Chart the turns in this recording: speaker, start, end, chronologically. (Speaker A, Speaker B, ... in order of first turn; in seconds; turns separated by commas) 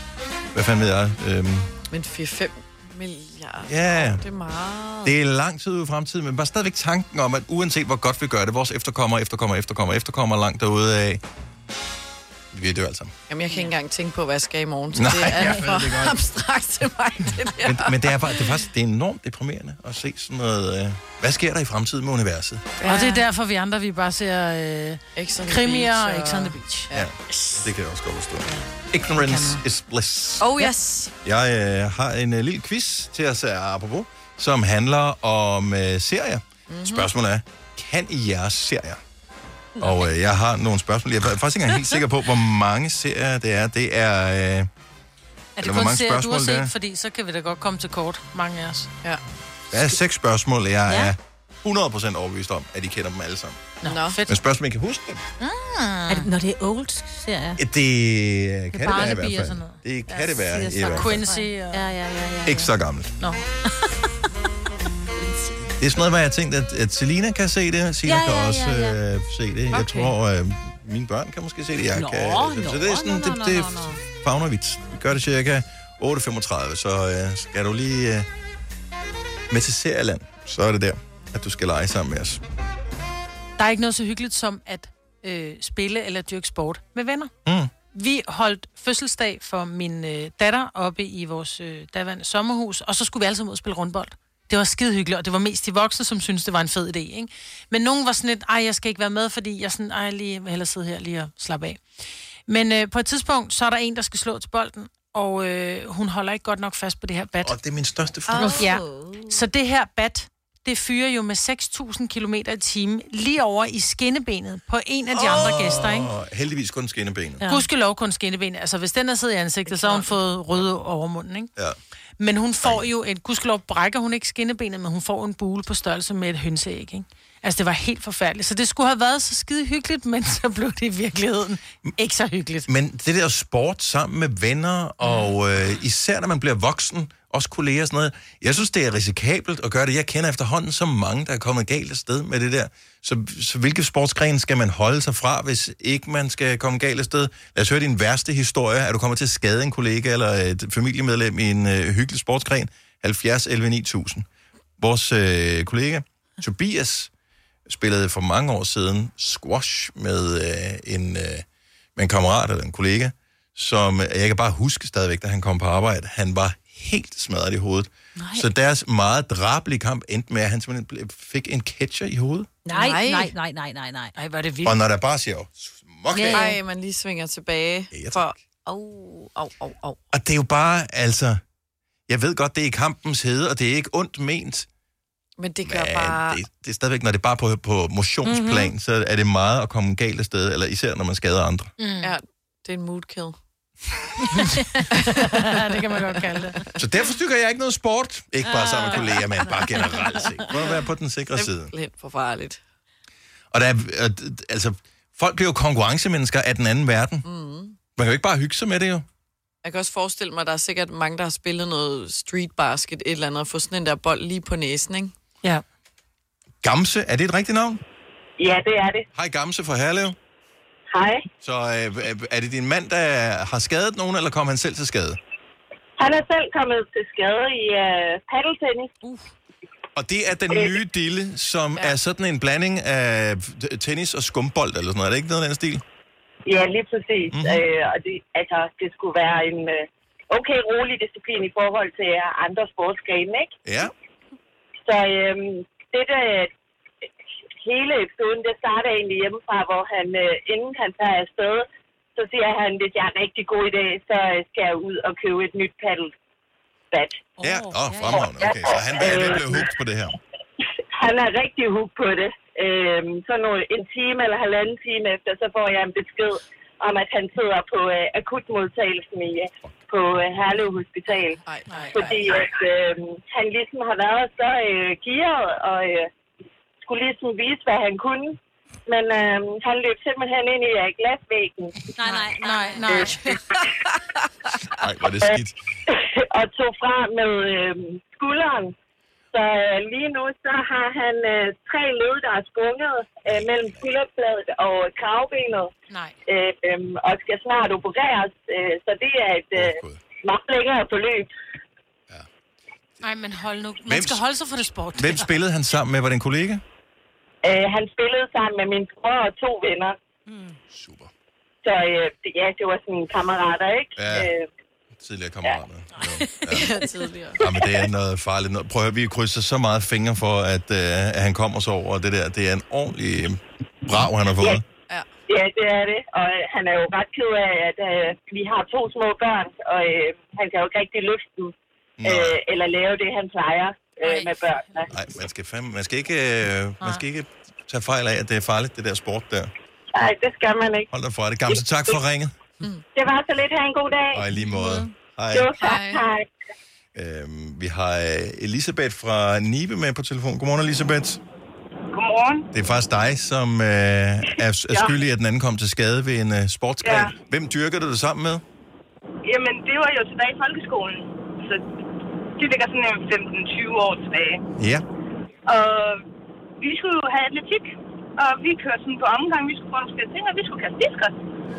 Speaker A: 0.5-1.7, Speaker B: 1.9-5.1, Speaker A: 3.7-4.2, Speaker A: 5.0-11.2, Speaker A: 12.5-13.1, Speaker B: 13.3-18.4, Speaker A: 14.9-16.2, Speaker A: 17.6-22.7, Speaker B: 22.8-23.2, Speaker C: 22.9-26.9, Speaker B: 25.1-27.1, Speaker A: 26.9-30.5, Speaker C: 29.2-29.6, Speaker B: 30.4-31.1, Speaker A: 31.2-39.0, Speaker B: 36.7-37.1, Speaker A: 39.8-44.7, Speaker C: 45.6-48.9, Speaker A: 45.6-46.7, Speaker A: 49.7-53.7, Speaker D: 50.9-51.1, Speaker C: 53.8-54.4, Speaker B: 53.8-54.2, Speaker A: 54.3-55.2, Speaker C: 55.4-56.3, Speaker D: 56.1-57.6, Speaker A: 57.6-61.2, Speaker C: 58.7-61.9, Speaker D: 60.8-62.7, Speaker A: 62.4-63.1, Speaker A: 65.8-78.3, Speaker D: 68.0-69.0, Speaker D: 71.9-74.0, Speaker A: 79.5-82.4, Speaker C: 83.6-87.3, Speaker A: 87.5-87.7, Speaker C: 87.9-101.8, Speaker C: 102.5-107.5, Speaker A: 107.4-108.7, Speaker D: 108.3-109.3, Speaker C: 108.3-116.1, Speaker A: 115.1-117.4, Speaker C: 117.5-121.5, Speaker B: 119.7-120.0, Speaker C: 122.2-132.7, Speaker A: 132.7-154.3, Speaker A: 154.8-157.1, Speaker A: 157.7-161.4, Speaker A: 161.9-172.5, Speaker D: 168.2-168.5, Speaker D: 172.7-174.1, Speaker B: 172.7-173.3, Speaker C: 174.2-174.8, Speaker A: 174.6-176.5, Speaker D: 176.1-176.6, Speaker B: 176.3-180.0, Speaker A: 177.9-178.3, Speaker A: 180.1-181.4, Speaker A: 182.1-184.7, Speaker B: 185.4-186.4, Speaker A: 185.6-191.7, Speaker D: 188.2-188.7, Speaker C: 191.8-192.1, Speaker B: 192.0-193.4, Speaker B: 194.9-195.5, Speaker C: 195.2-196.6, Speaker A: 196.8-201.7, Speaker D: 198.5-199.5, Speaker B: 201.3-202.6, Speaker A: 203.5-207.2, Speaker B: 207.2-207.8, Speaker A: 207.9-209.1, Speaker B: 209.6-215.1, Speaker A: 216.6-217.8, Speaker E: 218.4-219.1, Speaker A: 219.1-220.2, Speaker E: 220.9-221.3, Speaker A: 221.4-225.2, Speaker E: 226.0-228.9, Speaker A: 229.9-235.8, Speaker E: 230.5-230.8, Speaker E: 236.4-243.5, Speaker A: 237.3-237.6, Speaker A: 243.6-243.9, Speaker E: 244.9-246.5, Speaker E: 247.6-256.1, Speaker E: 256.9-257.2, Speaker A: 257.4-260.2, Speaker C: 257.5-258.1, Speaker D: 257.9-258.2, Speaker E: 258.4-259.6, Speaker E: 260.9-271.4, Speaker B: 271.4-272.3, Speaker E: 271.9-276.1, Speaker E: 276.8-281.8, Speaker D: 282.0-283.2, Speaker C: 282.0-283.2, Speaker B: 283.2-284.7, Speaker A: 284.7-285.6, Speaker E: 285.2-288.7, Speaker E: 289.3-295.7, Speaker A: 293.3-293.8, Speaker C: 295.9-296.2, Speaker E: 296.3-301.3, Speaker A: 299.6-300.0, Speaker C: 303.0-305.3, Speaker A: 303.9-304.2, Speaker A: 304.9-306.6, Speaker E: 307.4-309.9, Speaker D: 310.3-310.6, Speaker A: 310.7-311.1, Speaker E: 311.6-314.4, Speaker A: 313.9-314.3, Speaker A: 315.0-316.7, Speaker D: 316.0-316.4, Speaker B: 316.5-317.4, Speaker A: 317.4-324.6, Speaker E: 325.3-331.5, Speaker A: 332.0-332.4, Speaker E: 332.1-334.9, Speaker C: 334.1-334.3, Speaker A: 334.9-339.5, Speaker E: 339.9-340.9, Speaker A: 340.9-342.3, Speaker E: 341.5-342.0, Speaker E: 342.9-344.3, Speaker A: 344.1-345.5, Speaker D: 344.5-344.8, Speaker E: 345.3-346.3, Speaker B: 345.6-346.1, Speaker A: 346.9-351.2, Speaker F: 351.9-352.4, Speaker A: 352.5-358.4, Speaker F: 359.3-361.6, Speaker F: 362.4-364.4, Speaker A: 364.6-364.8, Speaker F: 365.5-366.0, Speaker F: 366.6-367.6, Speaker F: 368.2-371.1